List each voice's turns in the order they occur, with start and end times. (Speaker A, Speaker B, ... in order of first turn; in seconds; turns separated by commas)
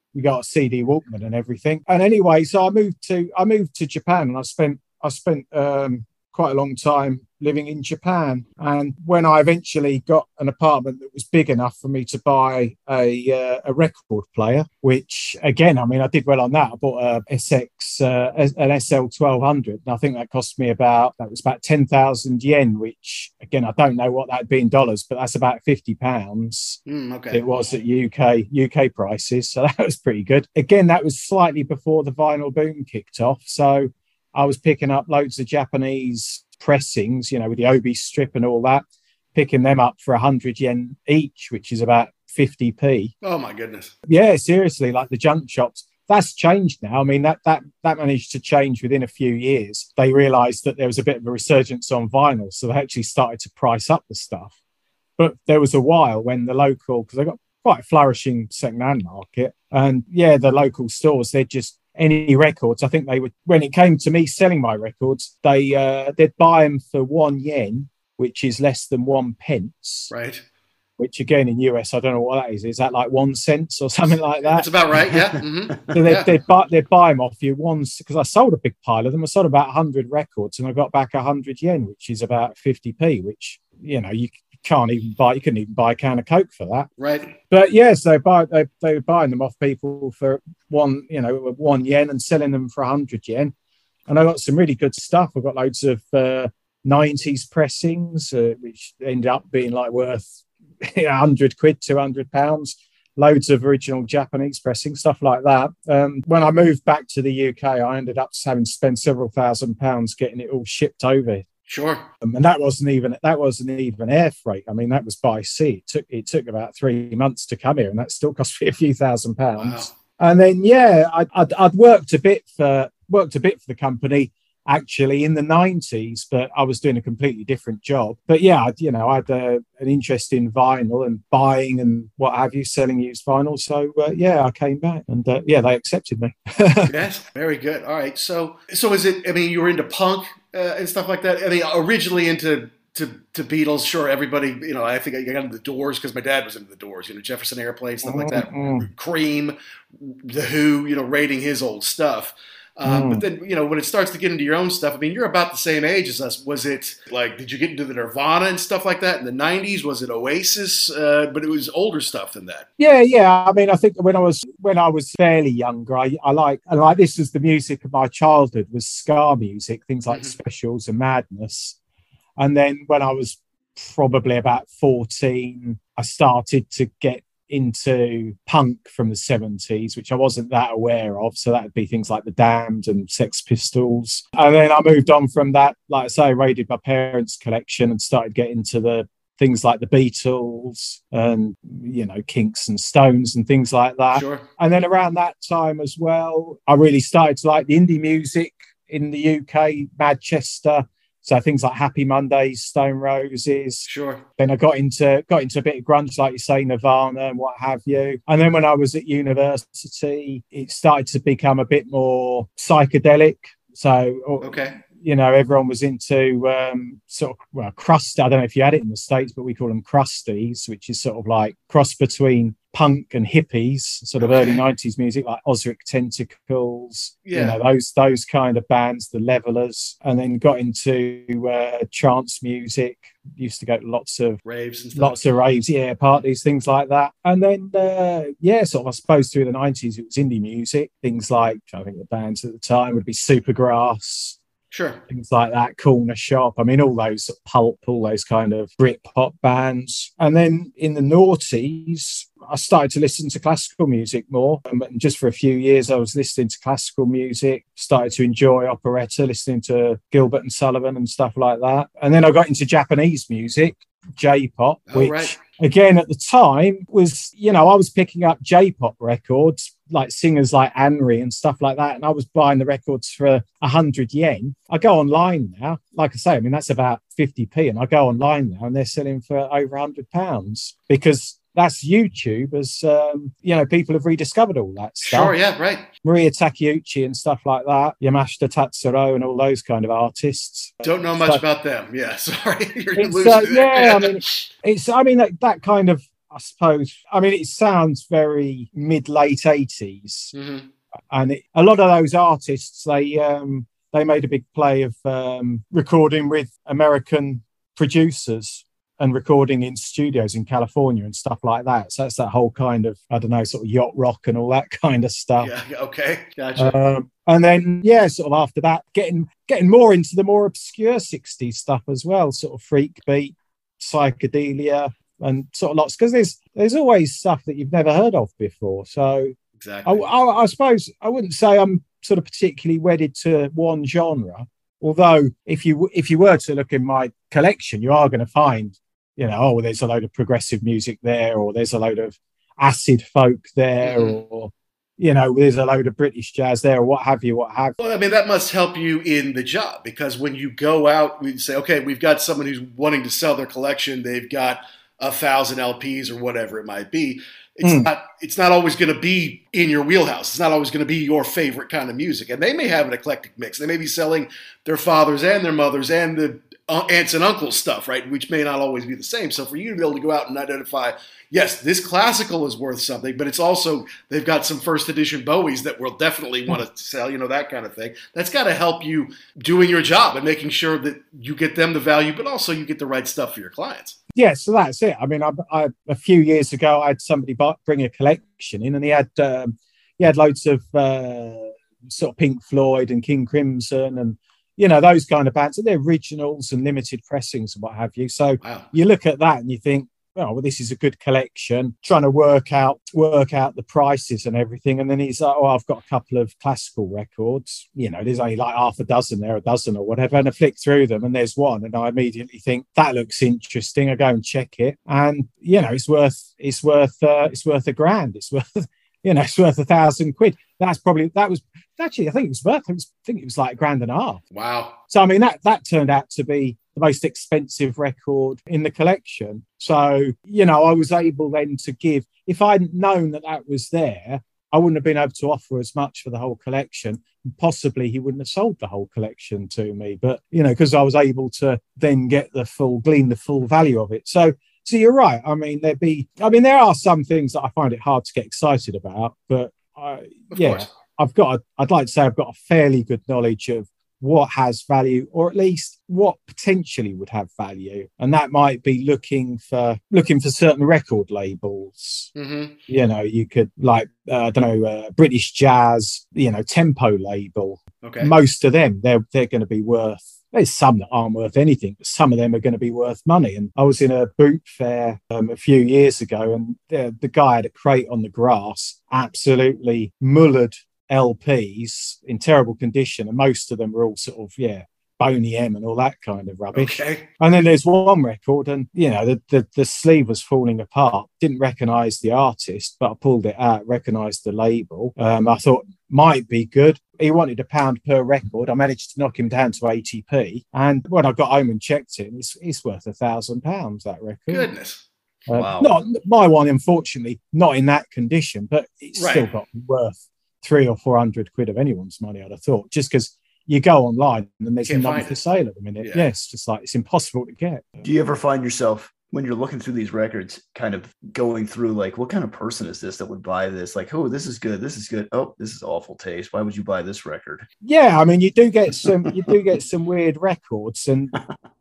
Speaker A: 0.1-26.8, Speaker B: 26.9-27.4, Speaker A: 27.3-43.1, Speaker B: 43.2-43.9, Speaker A: 44.0-54.5, Speaker A: 55.2-70.1, Speaker B: 70.1-70.4, Speaker A: 71.0-74.7, Speaker B: 74.5-76.3, Speaker A: 75.9-86.9, Speaker B: 87.0-87.3, Speaker A: 87.4-93.5, Speaker A: 94.1-111.4, Speaker B: 111.7-112.1, Speaker A: 112.2-136.9, Speaker B: 119.6-119.9, Speaker B: 136.9-162.7, Speaker A: 148.0-148.9, Speaker A: 152.8-153.2, Speaker A: 162.8-171.8, Speaker B: 170.1-170.3, Speaker A: 172.4-234.4, Speaker B: 194.1-194.4, Speaker B: 203.8-204.2, Speaker B: 214.4-214.8, Speaker B: 224.2-224.6, Speaker B: 227.2-227.6, Speaker B: 234.4-235.2, Speaker A: 234.9-244.4, Speaker B: 244.7-245.0, Speaker A: 245.1-285.3, Speaker B: 264.9-265.4, Speaker B: 285.0-285.9, Speaker A: 286.0-291.4, Speaker B: 290.8-294.5, Speaker A: 293.0-300.3, Speaker B: 300.3-300.7, Speaker A: 301.1-315.5, Speaker B: 315.4-316.8, Speaker A: 316.6-329.3, Speaker B: 329.6-330.1, Speaker A: 329.8-347.8, Speaker B: 343.8-344.2, Speaker B: 347.8-384.0, Speaker A: 357.6-357.9, Speaker A: 384.1-424.2, Speaker B: 398.4-398.7, Speaker B: 424.3-424.8, Speaker A: 424.9-462.1, Speaker B: 450.3-450.7, Speaker B: 462.1-462.6, Speaker A: 462.7-504.5, Speaker B: 467.8-468.1, Speaker B: 486.5-487.1, Speaker B: 504.3-504.8, Speaker A: 505.3-517.7, Speaker C: 505.3-505.7, Speaker B: 508.9-509.3, Speaker B: 514.6-515.2, Speaker B: 515.8-516.1, Speaker C: 517.8-527.5, Speaker A: 527.6-531.2